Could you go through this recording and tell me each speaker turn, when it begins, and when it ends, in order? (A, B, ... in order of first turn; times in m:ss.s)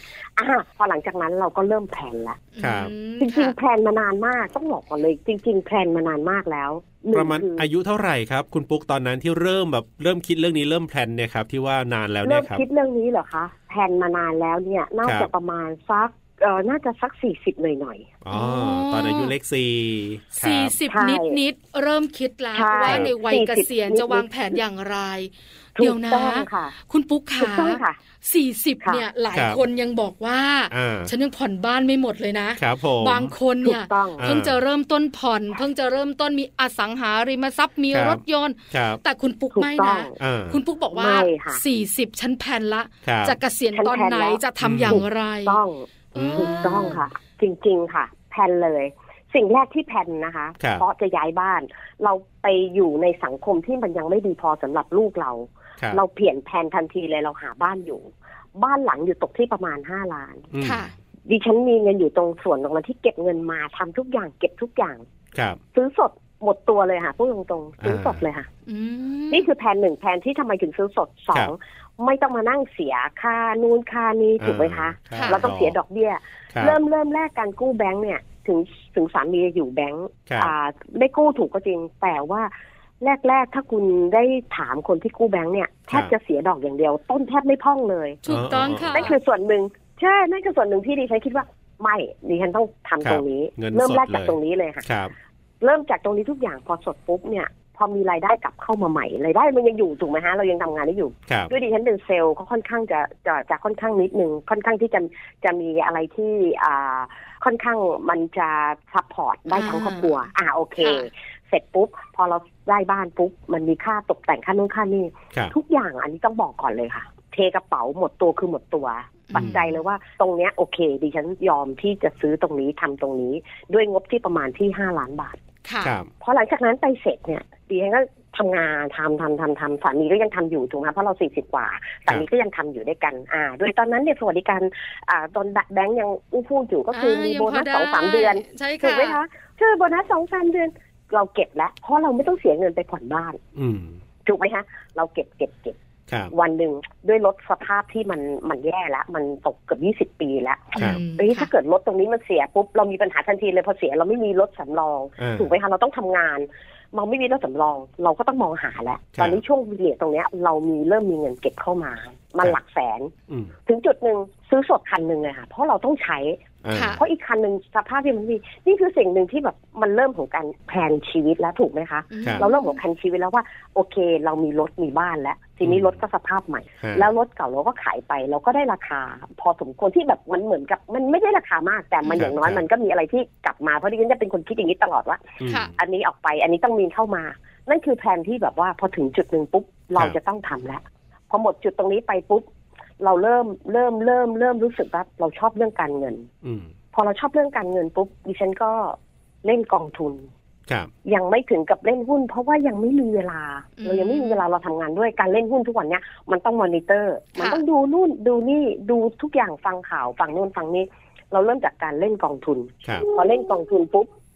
0:00.4-0:02.5 A
0:02.6-0:03.6 B
0:02.6-0:02.9 C
0:03.2-0:07.7 A
0:07.1-0:12.6 C
0:12.2-0:18.1 A
0:15.0-0:15.3 C
0:18.2-0:20.7 C
0:18.3-0:19.3 B
0:20.4-0:45.6 B
0:20.9-0:21.4 A
0:22.5-0:24.6 A
0:25.8-0:26.7 A
0:27.4-0:28.0 A
0:29.3-0:29.6 C
0:30.7-0:31.1 C
0:32.6-0:33.3 C
0:33.6-0:34.2 A
0:34.2-0:34.6 C
0:37.9-0:38.2 C
0:38.7-0:39.0 C
0:39.5-0:40.1 A
0:40.2-0:40.6 C
0:40.9-0:41.6 A
0:43.0-0:43.4 C
0:43.7-1:00.5 A
0:44.6-0:45.0 C
0:46.2-0:47.0 B
0:46.2-0:46.9 C
1:00.5-1:00.9 C
1:00.6-1:00.9 B
1:01.3-1:05.0 A
1:05.3-1:05.6 C
1:05.7-1:08.5 A
1:07.8-1:08.2 C
1:08.7-1:09.5 B
1:09.3-1:28.2 A
1:14.4-1:15.8 C
1:15.1-1:15.4 B
1:20.3-1:20.5 C
1:28.2-1:29.2 B
1:28.3-1:29.1 C
1:28.9-1:34.8 A
1:33.0-1:35.1 C
1:35.6-2:05.4 A
1:41.3-1:41.5 C
1:49.5-1:50.1 B
1:50.8-1:51.1 B
1:59.3-1:59.7 B
1:59.3-1:59.6 C
2:05.7-2:06.0 B
2:05.8-2:06.1 C
2:06.2-2:23.4 A
2:16.9-2:19.2 B
2:23.6-2:24.0 C
2:24.2-2:25.8 A
2:26.1-2:26.3 C
2:26.3-2:43.1 A
2:30.8-2:31.5 B
2:35.2-2:35.5 C
2:43.7-2:46.4 A
2:46.6-2:47.0 C
2:46.8-2:47.0 B
2:47.0-3:12.5 A
2:52.1-2:52.8 B
2:55.6-2:55.9 C
2:56.8-2:57.1 C
3:02.0-3:02.3 B
3:02.2-3:02.6 C
3:05.4-3:05.7 C
3:13.0-3:16.3 A
3:16.4-3:16.7 C
3:16.9-3:20.3 A
3:21.0-3:34.1 A
3:23.8-3:24.4 B
3:27.4-3:27.6 B